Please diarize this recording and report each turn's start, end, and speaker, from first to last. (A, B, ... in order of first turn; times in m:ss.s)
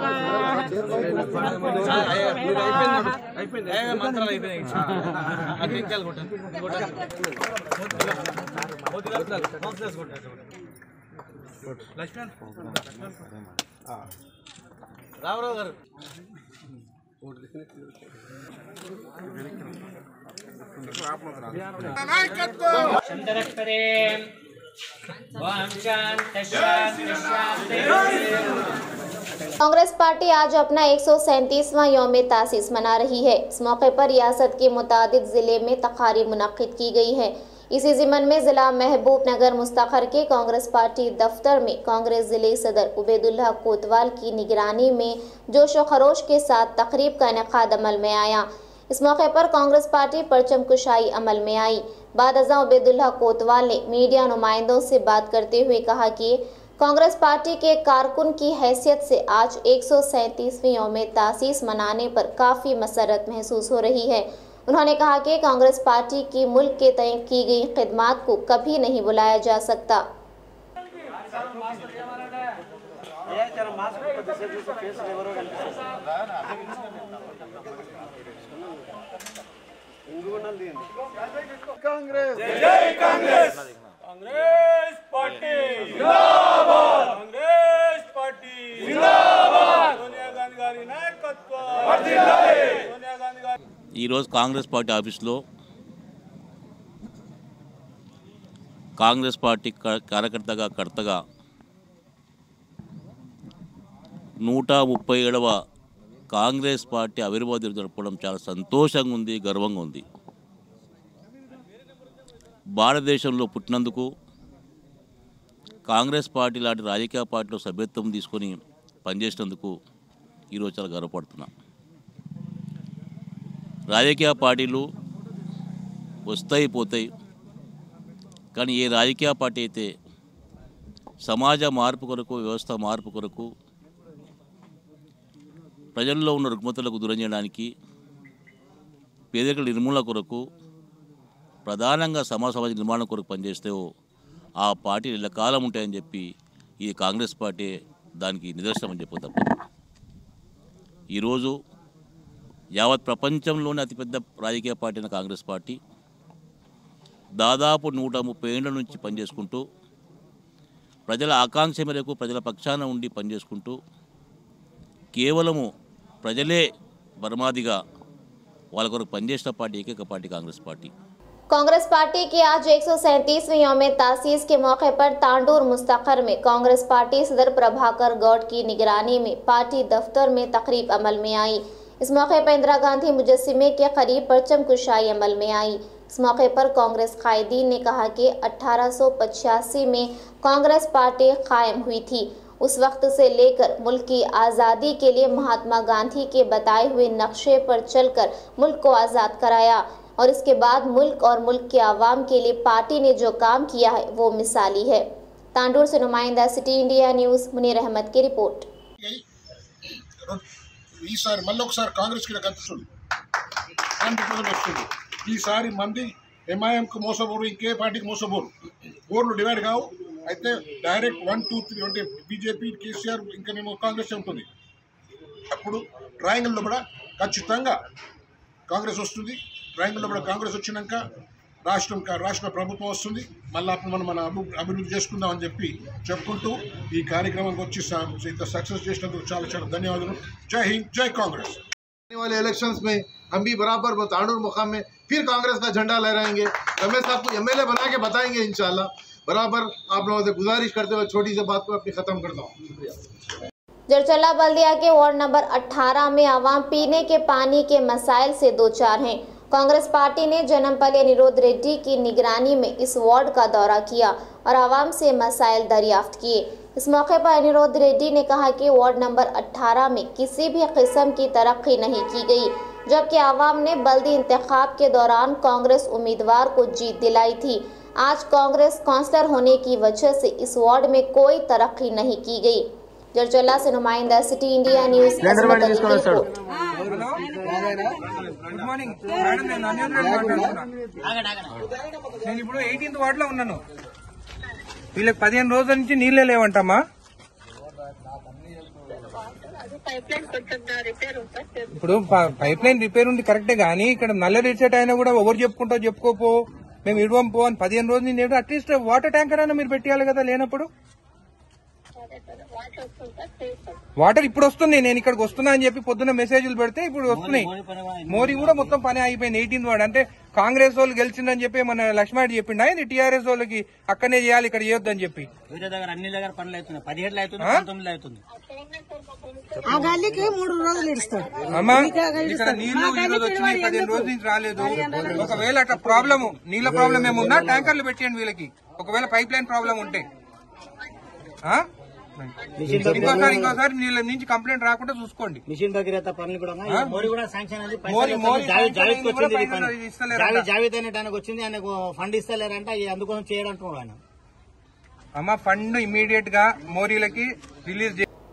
0:02.2-0:02.6 A
0:22.0-0:23.0 B
0:23.0-0:24.2 A
0:25.4-0:28.6 A
0:29.6-1:10.0 C
1:23.0-1:23.3 A
1:25.3-1:26.0 A
1:28.7-1:29.9 A
1:31.8-1:32.8 A
1:34.0-1:35.4 D
1:39.0-1:41.2 D
1:44.5-1:45.5 D
1:46.3-1:50.0 D
1:52.8-1:54.0 D
1:55.9-1:58.6 D
1:59.1-1:59.7 D
2:00.5-2:01.5 D
2:03.9-2:04.8 D
2:06.3-2:07.1 D
2:08.6-2:09.9 D
2:11.2-2:13.4 D
2:16.0-2:17.7 D
2:19.3-2:20.4 D
2:21.7-2:23.8 D
2:24.6-2:26.2 D
2:26.8-2:27.7 D
2:28.2-2:29.6 D
2:31.2-2:31.5 D
2:32.8-2:35.8 D
2:37.4-2:39.6 D
2:41.1-2:43.8 D
2:45.1-2:45.6 D
2:46.2-2:46.6 D
2:47.2-2:47.7 D
2:48.8-2:50.9 D
2:51.5-3:25.0 C
3:25.6-3:28.7 C
3:31.0-3:32.9 B
3:34.0-3:38.5 B
3:39.1-3:44.5 B
3:45.5-3:47.8 B
3:48.7-3:51.0 B
3:51.6-4:01.6 B
4:02.1-4:12.7 E
4:13.9-4:46.3 C
4:45.3-4:46.2 E
4:46.9-4:47.4 F
4:48.5-4:50.7 F
4:51.0-4:51.5 G
4:52.2-4:53.6 F
4:55.0-4:56.8 F
4:59.1-5:01.7 H
5:01.7-5:06.3 F
5:06.8-5:10.7 F
5:12.0-5:13.8 H
5:14.0-5:17.5 F
5:17.1-5:18.8 G
5:18.1-5:25.3 F
5:25.5-5:28.2 G
5:27.4-5:27.7 F
5:28.3-5:31.8 H
5:31.5-5:40.1 F
5:36.6-5:37.6 G
5:42.2-5:45.4 F
5:42.6-5:43.6 G
5:45.5-5:54.0 G
5:46.7-5:47.1 F
5:47.9-5:50.5 F
5:55.2-5:58.0 F